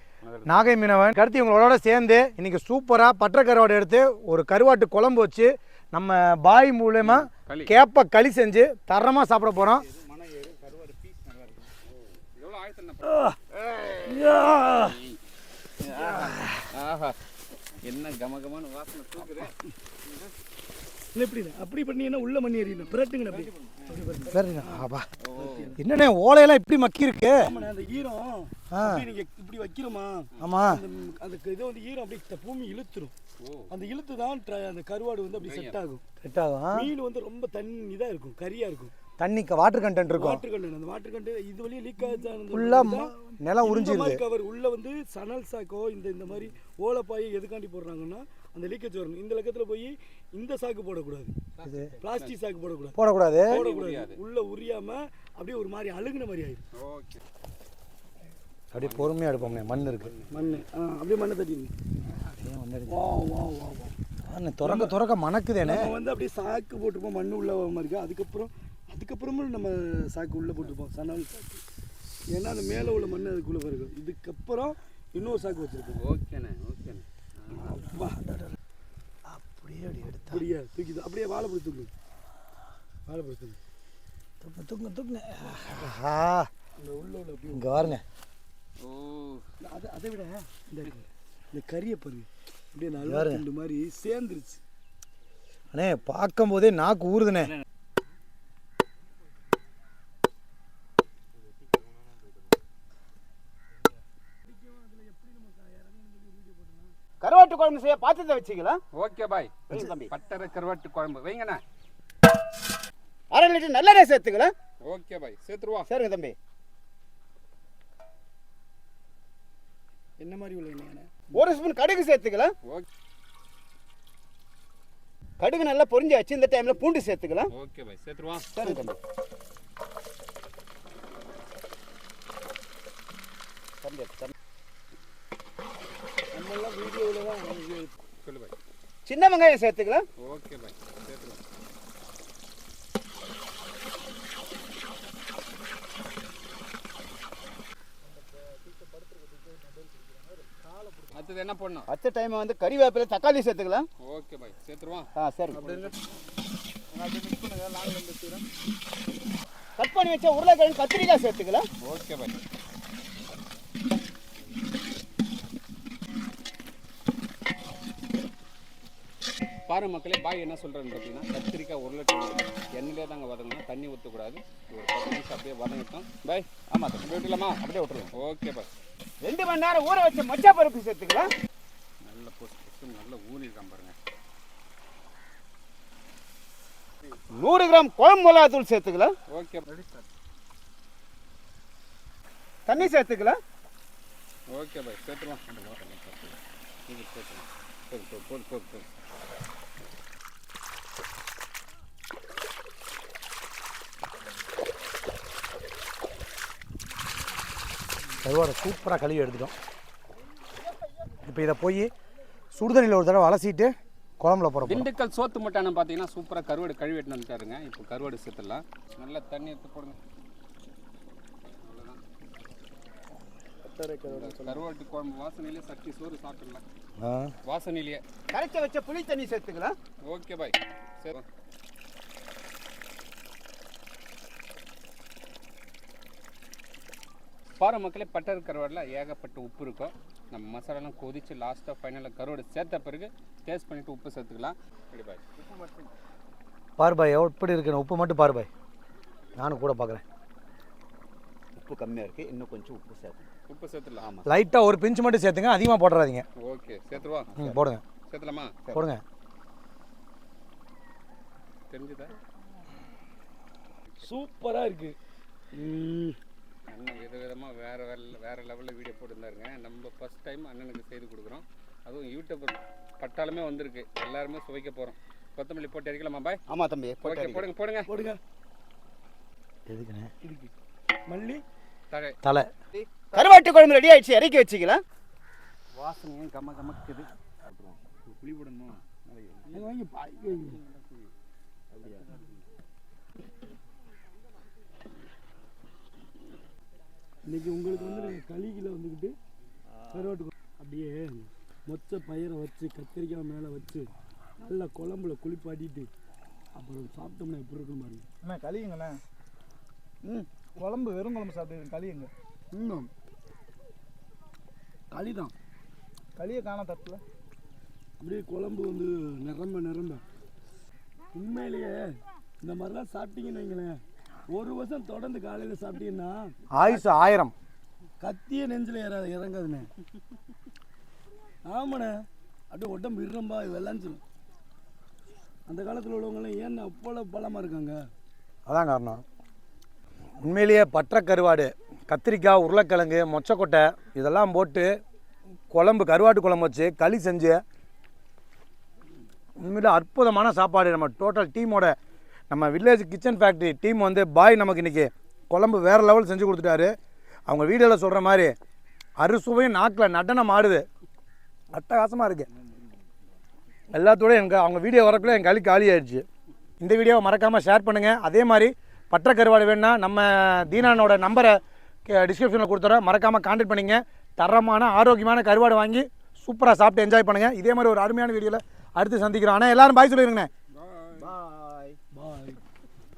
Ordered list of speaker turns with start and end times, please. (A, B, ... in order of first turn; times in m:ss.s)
0:00.2-0:00.7 A
0:00.5-0:09.9 B
0:07.0-0:07.7 A
0:10.2-0:10.9 C
0:10.9-0:11.2 A
0:11.9-0:15.2 A
0:13.1-0:13.4 D
0:14.1-0:15.0 D
0:15.8-0:17.2 A
0:17.8-0:19.5 A
0:21.2-0:25.8 D
0:24.3-0:25.1 B
0:25.2-0:25.7 A
0:25.8-0:27.4 B
0:27.4-0:33.1 D
0:28.7-0:29.0 B
0:30.4-0:30.8 B
0:33.4-0:33.7 A
0:33.7-0:36.0 D
0:35.4-0:35.8 A
0:36.2-0:36.9 B
0:36.7-0:38.9 D
0:39.2-0:40.4 B
0:40.2-0:51.4 D
0:42.5-0:44.2 B
0:51.6-0:52.3 A
0:51.6-0:51.9 B
0:52.0-0:56.6 D
0:53.0-0:53.6 B
0:53.5-0:54.2 A
0:56.8-0:57.2 A
0:58.7-1:00.1 B
0:58.8-1:00.6 A
1:00.3-1:01.7 D
1:02.4-1:03.0 B
1:02.9-1:04.0 D
1:04.3-1:05.9 B
1:04.6-1:05.0 D
1:05.6-1:11.6 D
1:12.3-1:16.0 D
1:16.0-1:17.8 A
1:17.5-1:18.6 D
1:19.3-1:20.5 B
1:20.3-1:21.9 D
1:23.1-1:23.6 D
1:24.4-1:26.5 B
1:26.8-1:28.0 D
1:27.5-1:28.0 B
1:28.8-1:29.4 A
1:29.6-1:34.6 D
1:33.0-1:33.4 B
1:35.7-1:37.5 B
1:44.4-1:47.0 D
1:47.2-1:48.8 E
1:48.9-1:51.6 A
1:49.7-1:50.1 E
1:53.3-1:54.5 E
1:54.8-1:55.9 A
1:55.9-1:56.4 E
2:00.2-2:01.3 D
2:01.3-2:02.5 E
2:05.4-2:07.5 E
2:07.5-2:08.5 A
2:08.5-2:09.0 E
2:13.8-2:14.4 E
2:16.3-2:18.0 D
2:18.2-2:18.5 A
2:19.1-2:20.1 E
2:20.2-2:21.4 A
2:28.1-2:31.1 C
2:31.1-2:31.9 A
2:31.9-2:33.9 E
2:34.0-2:36.0 A
2:35.2-2:35.6 E
2:36.9-2:38.4 C
2:39.8-2:41.7 E
2:41.8-2:42.4 A
2:49.7-2:56.5 A
2:56.7-2:58.1 E
2:57.0-2:57.6 A
2:58.1-2:58.7 A
2:59.2-3:01.3 E
3:02.0-3:04.0 A
3:07.3-3:09.1 E
3:09.3-3:10.0 A
3:12.7-3:13.4 E
3:14.5-3:16.3 A
3:16.9-3:18.9 A
3:28.2-3:29.5 B
3:31.2-3:31.9 B
3:32.5-3:34.9 B
3:34.6-3:40.0 A
3:41.6-3:42.0 A
3:43.7-3:44.3 D
3:43.7-3:44.1 C
3:44.0-3:46.6 A
3:47.0-3:47.3 B
3:47.4-3:48.0 A
3:48.3-3:49.8 E
3:50.0-3:51.2 A
3:57.6-4:05.7 A
4:06.8-4:08.5 B
4:09.4-4:10.0 B
4:11.6-4:13.3 E
4:13.5-4:14.1 A
4:14.0-4:14.3 E
4:14.3-4:16.2 B
4:16.4-4:17.3 A
4:17.3-4:17.6 E
4:17.4-4:17.8 B
4:18.1-4:18.5 A
4:18.8-4:19.0 B
4:21.7-4:22.1 A
4:24.0-4:25.0 D
4:25.5-4:26.2 D
4:26.7-4:36.4 A
4:36.5-4:37.5 E
4:37.0-4:37.9 A
4:37.9-4:38.2 D
4:39.7-4:40.1 B
4:40.2-4:40.5 D
4:41.1-4:41.4 D
4:41.9-4:42.2 A
4:42.2-4:42.5 B
4:42.7-4:44.8 E
4:45.8-4:47.1 A
4:48.1-4:49.0 A
4:49.5-4:50.6 D
4:57.3-4:59.2 D
4:59.9-5:05.9 D
5:06.6-5:08.0 D
5:08.2-5:09.0 C
5:10.6-5:12.1 C
5:14.9-5:15.3 D
5:16.2-5:17.0 C
5:18.0-5:20.0 D
5:21.1-5:23.8 D
5:24.3-5:26.8 D
5:26.6-5:27.4 B
5:28.0-5:29.7 D
5:31.5-5:32.0 D
5:32.5-5:34.0 D
5:35.5-5:37.9 D
5:38.5-5:39.0 B
5:40.2-5:44.7 B
5:45.5-5:47.4 B
5:49.4-5:51.8 B
5:52.3-5:56.7 B
5:57.3-5:58.3 B
5:59.0-6:00.6 B
6:01.5-6:02.3 B
6:03.7-6:06.0 B
6:06.6-6:20.3 B
6:20.6-6:21.1 A
6:20.9-6:21.8 E
6:21.9-6:22.4 D